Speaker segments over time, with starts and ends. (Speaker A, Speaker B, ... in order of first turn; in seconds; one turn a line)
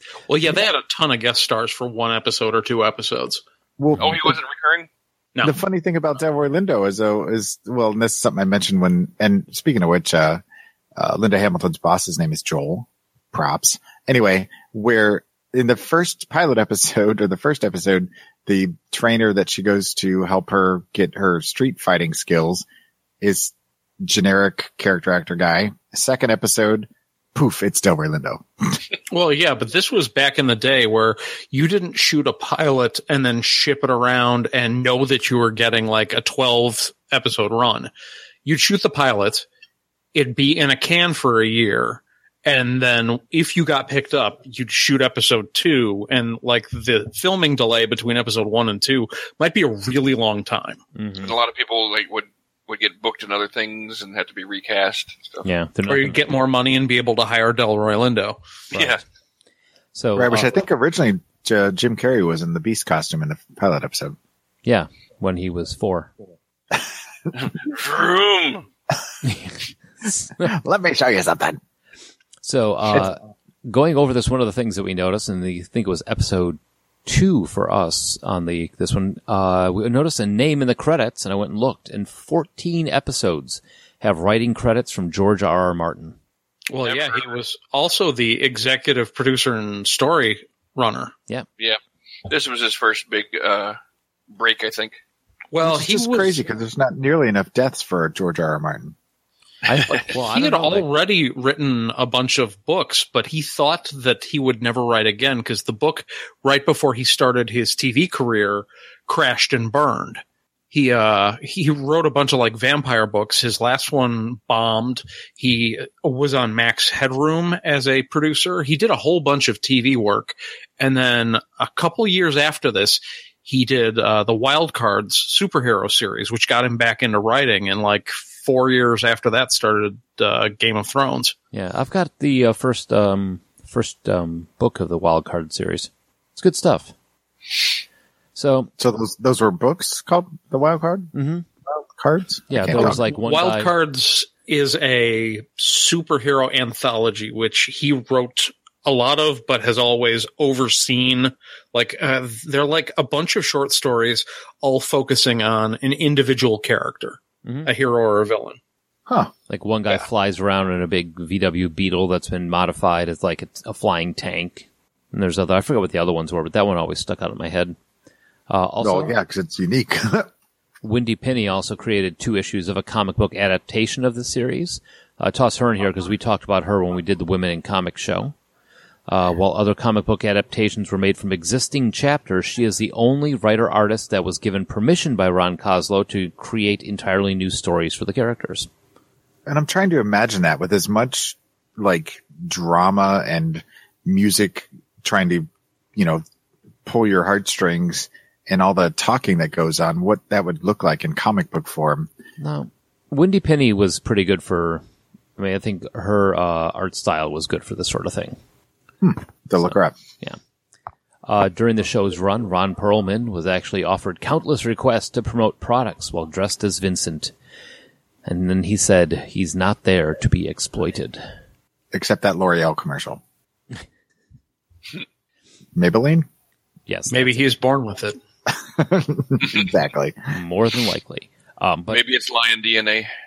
Speaker A: 0.3-3.4
Speaker B: 3.8-4.4
Speaker C: 4.0-4.9
Speaker B: 5.4-10.4
Speaker B: 11.0-22.7
Speaker B: 23.2-28.8
Speaker A: 29.1-37.9
Speaker A: 38.5-39.5
Speaker A: 40.1-50.8
Speaker D: 51.0-51.4
Speaker C: 51.2-55.5
Speaker D: 55.4-56.2
Speaker A: 55.9-58.4
Speaker D: 58.7-59.0
Speaker C: 58.7-59.0
Speaker D: 59.9-60.5
Speaker B: 60.1-64.2
Speaker D: 64.7-66.1
Speaker C: 67.4-68.7
Speaker D: 69.2-69.5
Speaker D: 70.1-70.5
Speaker B: 70.4-71.6
Speaker D: 72.4-86.2
Speaker A: 86.7-91.1
Speaker C: 86.8-87.3
Speaker C: 91.6-93.8
Speaker C: 94.3-95.0
Speaker A: 95.5-96.4
Speaker B: 95.6-99.0
Speaker D: 99.7-100.9
Speaker A: 100.1-131.3
Speaker D: 131.5-136.9
Speaker D: 138.4-138.7
Speaker B: 138.8-141.1
Speaker D: 141.1-141.5
Speaker B: 142.0-143.0
Speaker D: 142.5-143.7
Speaker A: 142.7-158.6
Speaker D: 157.4-157.7
Speaker B: 159.1-159.3
Speaker D: 159.5-167.8
Speaker D: 168.5-169.2
Speaker B: 168.8-170.3
Speaker D: 170.8-178.3
Speaker D: 179.1-188.7
Speaker B: 189.5-196.2
Speaker B: 196.9-202.1
Speaker D: 202.4-204.8
Speaker D: 205.4-208.4
Speaker B: 209.0-209.9
Speaker D: 209.7-210.4
Speaker D: 211.2-217.3
Speaker D: 218.2-221.2
Speaker B: 221.9-223.2
Speaker B: 225.8-226.3
Speaker D: 226.9-227.4
Speaker A: 227.1-228.2
Speaker B: 228.5-230.2
Speaker D: 230.3-232.0
Speaker C: 231.9-233.1